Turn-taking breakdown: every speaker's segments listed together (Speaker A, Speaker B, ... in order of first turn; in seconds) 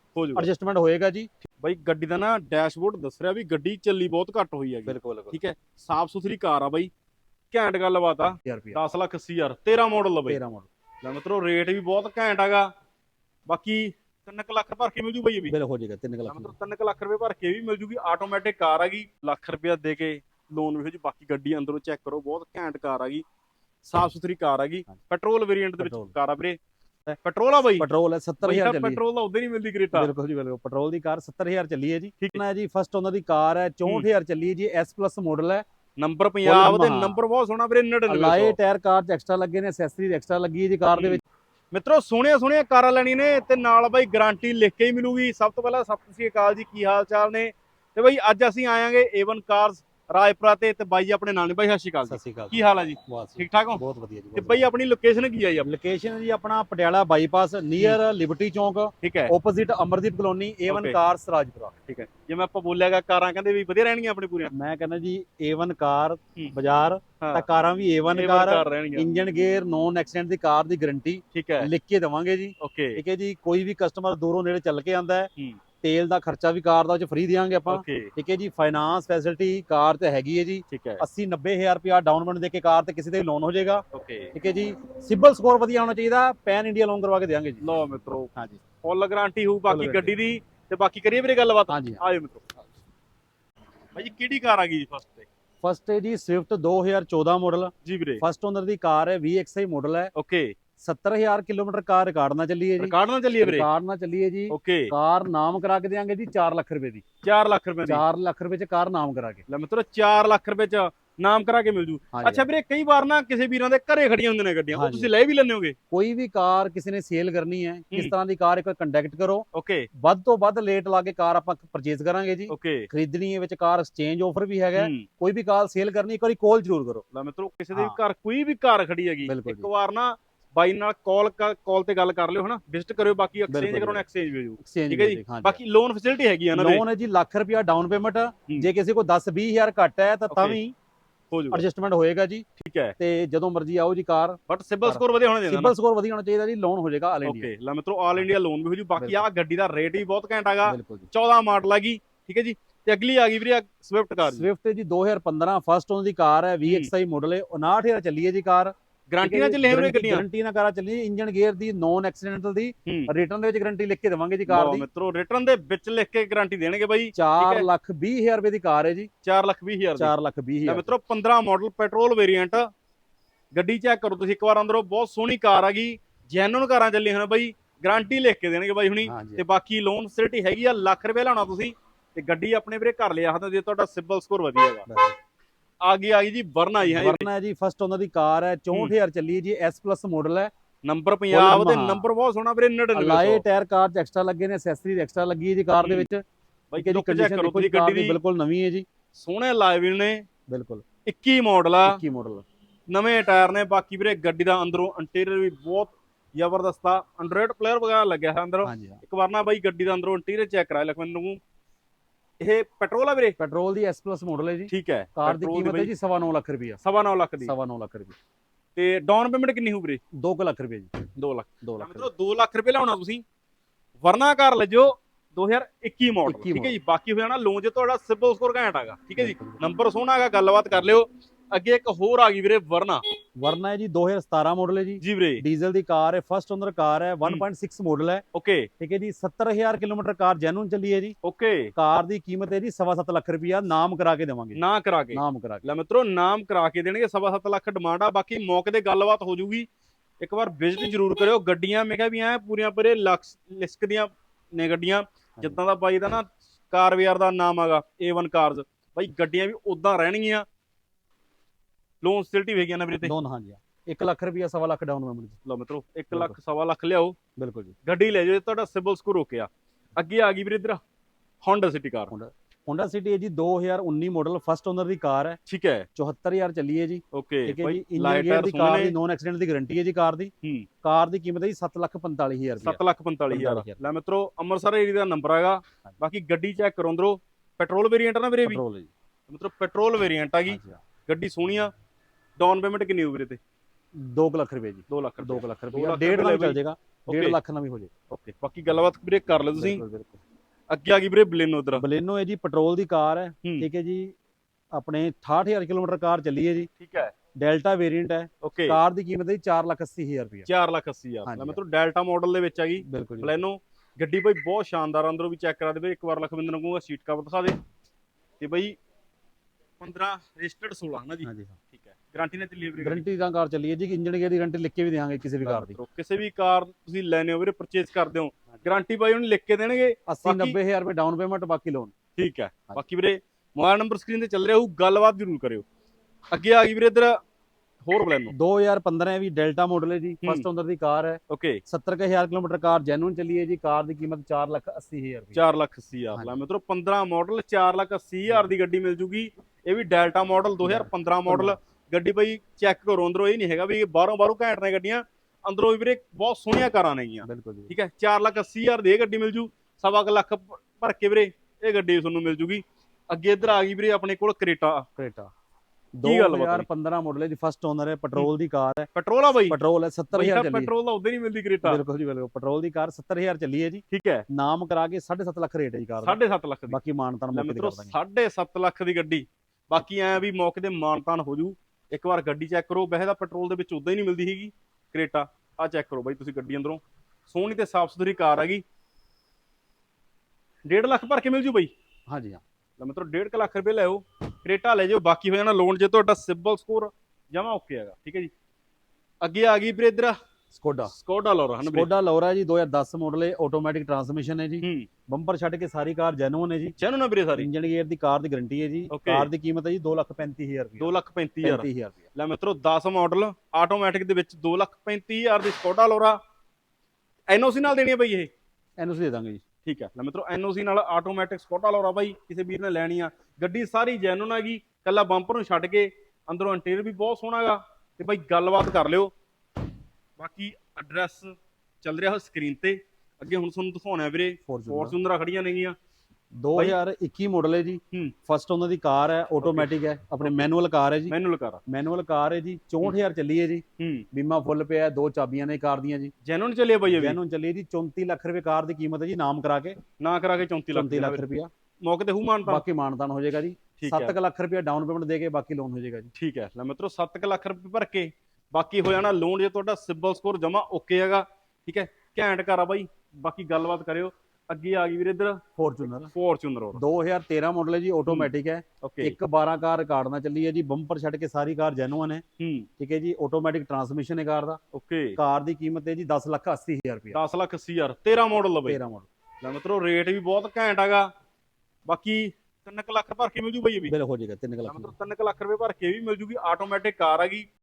Speaker A: 0.1-0.5, 1.6-6.9, 7.5-10.4, 11.0-12.7, 13.5-15.5, 16.3-23.2, 23.8-26.6, 27.2-27.9, 28.4-30.1, 36.0-38.6, 40.9-41.2, 41.7-53.8, 54.4-55.7, 59.0-59.3, 60.7-61.0, 61.9-64.5, 67.2-67.5, 68.1-69.1, 71.3-71.7, 72.6-73.0, 77.7-78.1, 80.7-81.0, 83.9-84.3, 87.6-88.3, 88.8-92.5, 94.0-95.3, 97.8-98.2, 100.1-100.5, 102.8-103.7, 104.5-104.9, 107.2-108.0, 109.5-115.8, 119.5-119.9, 122.5-122.9, 124.8-125.1, 127.1-136.8, 140.3-140.6, 141.3-141.6, 142.6-142.9, 144.5-145.7, 147.2-154.5, 159.1-160.2, 162.8-163.1, 164.5-167.6, 169.2-170.1, 170.7-172.7, 173.5-184.8, 185.8-187.3, 190.8-193.4, 195.8-196.1, 196.7-198.2, 199.1-200.2, 201.1-202.0, 202.9-211.4, 212.4-213.4, 214.7-215.9, 216.8-217.5, 218.7-220.0, 221.2-223.2, 224.0-233.0, 235.0-235.4, 238.3-238.7, 241.2-241.7, 244.6-249.7, 250.2-260.4, 262.0-263.1, 265.4-267.1, 267.8-270.8, 271.4-272.1, 275.5-275.9, 277.1-278.9, 282.6-288.6, 289.3-291.7, 292.4-293.4, 294.9-297.4, 298.1-299.8, 300.7-301.8, 306.8-307.1, 308.4-308.8, 310.4-317.6, 318.4-318.8, 319.8-323.0, 325.4-330.6, 332.2-335.6, 336.3-337.1, 337.8-338.3, 341.3-341.6, 345.3-364.8, 366.0-366.7, 368.9-369.6, 370.1-371.8, 373.9-374.2, 376.0-376.8, 377.3-388.6, 390.7-391.7, 392.8-398.3, 399.2-400.1, 400.9-401.9, 404.6-404.9, 406.8-407.5, 408.9-409.3, 410.8-416.2, 417.3-418.3, 419.6-429.1, 430.2-435.7, 439.4-440.5, 441.1-441.6, 443.8-444.1, 446.2-447.2, 450.0-451.2, 451.8-452.6, 453.8-454.1, 456.1-465.4, 466.0-466.8, 468.8-469.2, 472.4-472.7, 474.7-475.2, 477.1-478.8, 479.4-481.1, 481.9-483.9, 484.6-487.4
Speaker B: 0.3-1.3, 4.9-5.4, 8.4-8.8, 10.3-10.7, 15.5-16.5, 25.8-26.1, 27.8-29.0, 29.9-35.6, 36.4-37.2, 38.1-41.2, 52.1-54.7, 55.6-61.8, 64.5-75.3, 75.8-87.7, 88.3-88.6, 89.7-90.2, 91.7-92.0, 95.6-100.1, 100.8-107.0, 107.8-109.4, 112.1-112.5, 114.7-115.1, 115.9-127.0, 129.3-129.7, 133.5-134.0, 134.6-135.6, 136.5-140.7, 141.5-142.4, 143.0-147.5, 149.0-149.2, 150.6-151.1, 154.2-164.8, 167.2-169.1, 170.0-170.9, 179.0-179.4, 184.9-185.2, 186.8-190.5, 191.3-192.1, 192.9-196.2, 196.8-198.8, 200.5-200.8, 201.9-202.4, 208.6-209.0, 213.4-216.8, 217.4-218.1, 220.2-220.9, 221.6-222.1, 226.2-226.8, 229.2-229.6, 233.4-238.2, 238.8-241.2, 241.7-244.6, 245.1-245.7, 263.0-265.4, 266.1-266.4, 267.4-267.7, 272.1-275.4, 275.9-280.3, 280.8-282.8, 283.3-283.8, 288.4-288.9, 290.5-290.8, 293.9-297.9, 299.5-300.2, 301.8-304.1, 304.7-306.7, 307.4-310.5, 311.2-311.6, 312.8-313.3, 321.2-321.6, 322.8-325.8, 330.1-331.9, 338.3-345.4, 350.6-351.6, 357.2-357.7, 365.0-365.3, 365.9-368.9, 369.5-370.7, 371.6-376.2, 376.7-377.9, 392.1-392.4, 400.5-400.9, 401.6-406.8, 407.3-412.1, 418.8-419.4, 434.5-434.9, 436.4-441.1, 441.7-446.1, 446.9-449.8, 450.7-451.5, 452.5-456.1, 465.6-466.1, 466.8-472.2, 472.8-474.6, 475.2-477.2, 478.6-479.1, 483.9-484.9